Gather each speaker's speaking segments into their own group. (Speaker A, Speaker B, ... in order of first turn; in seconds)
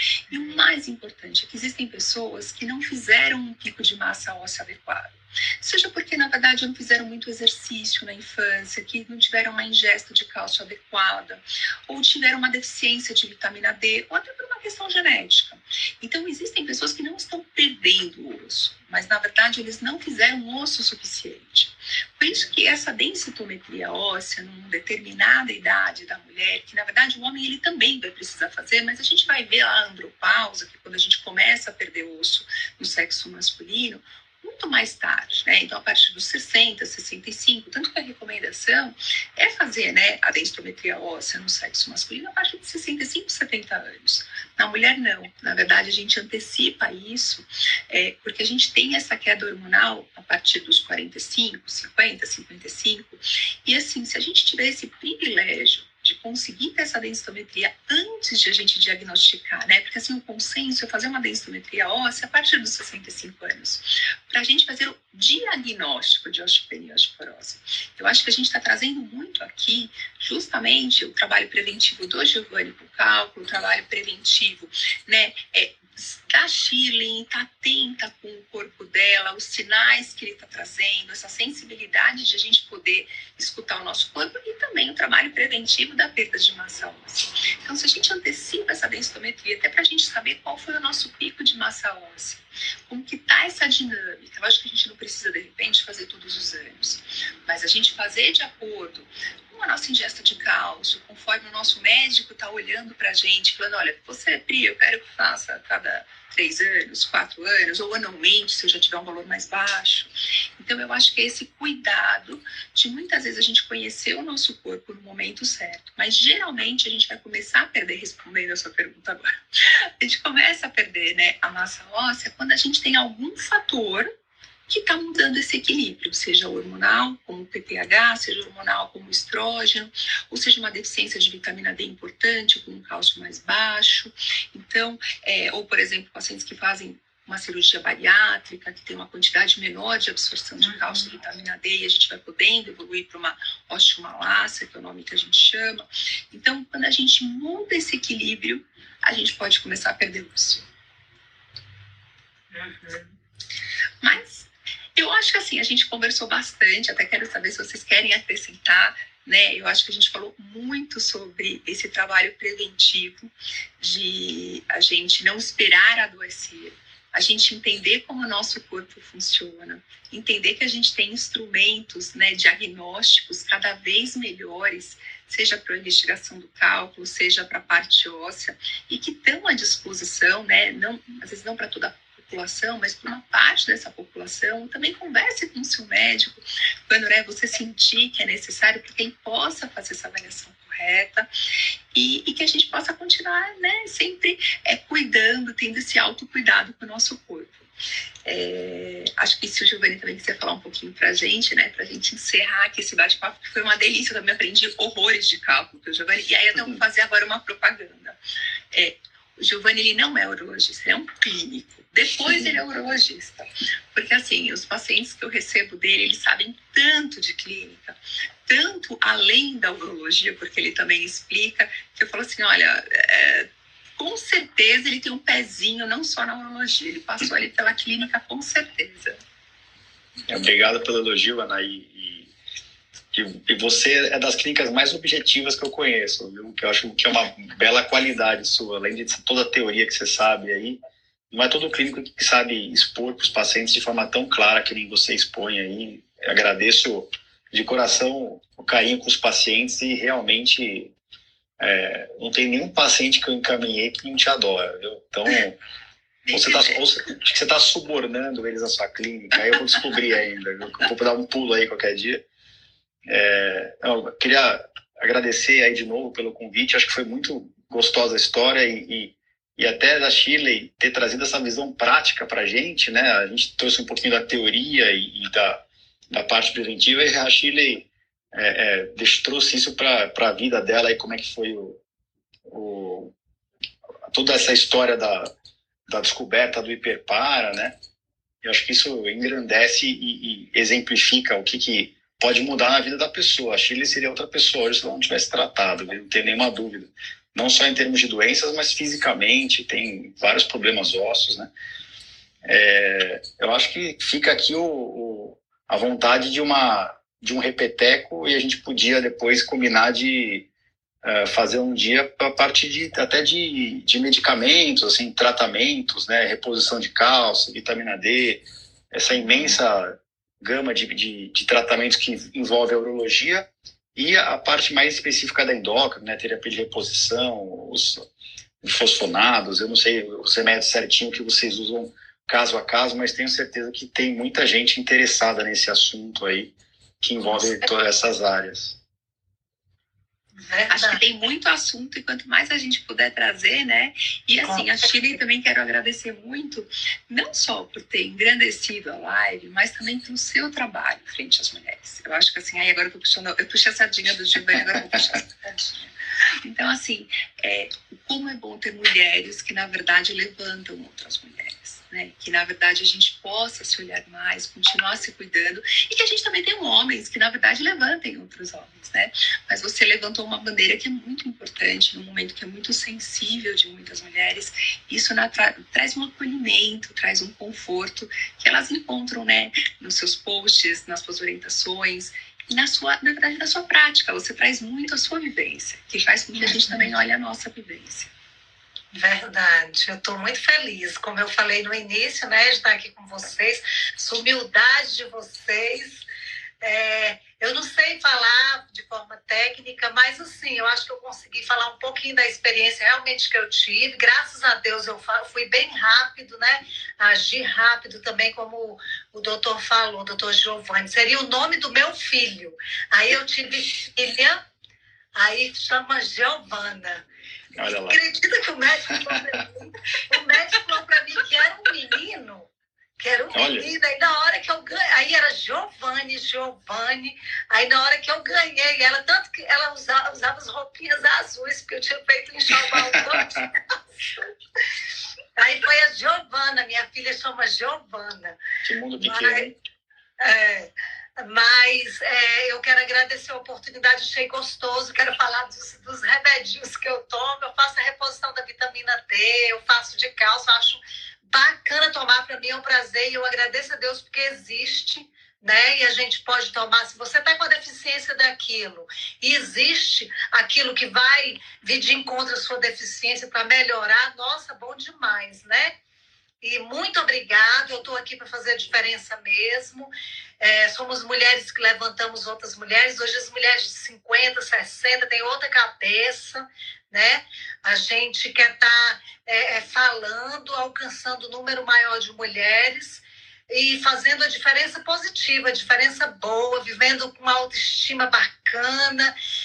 Speaker A: 0.3-0.7, 140.6-141.1, 152.5-153.1, 319.1-319.6, 340.4-341.0, 344.4-344.7, 386.4-386.9, 388.9-396.0, 396.6-414.4, 415.1-417.0, 417.8-434.3, 435.4-438.4, 439.0-439.5, 440.2-465.7, 466.4-489.1
Speaker B: 0.3-124.1, 124.7-150.6, 154.0-191.3, 191.9-197.7, 198.2-208.2, 208.7-229.2, 256.2-256.8, 340.7-388.1
Speaker C: 230.3-232.3, 233.1-240.8, 241.3-250.9, 251.6-255.6, 256.3-262.2, 263.1-281.8, 282.5-283.1, 284.1-285.3, 285.9-287.7, 288.4-301.5, 302.4-310.4, 311.0-328.0, 328.6-338.8, 417.6-418.0, 419.1-419.4, 423.3-423.7, 432.5-433.4, 438.6-439.5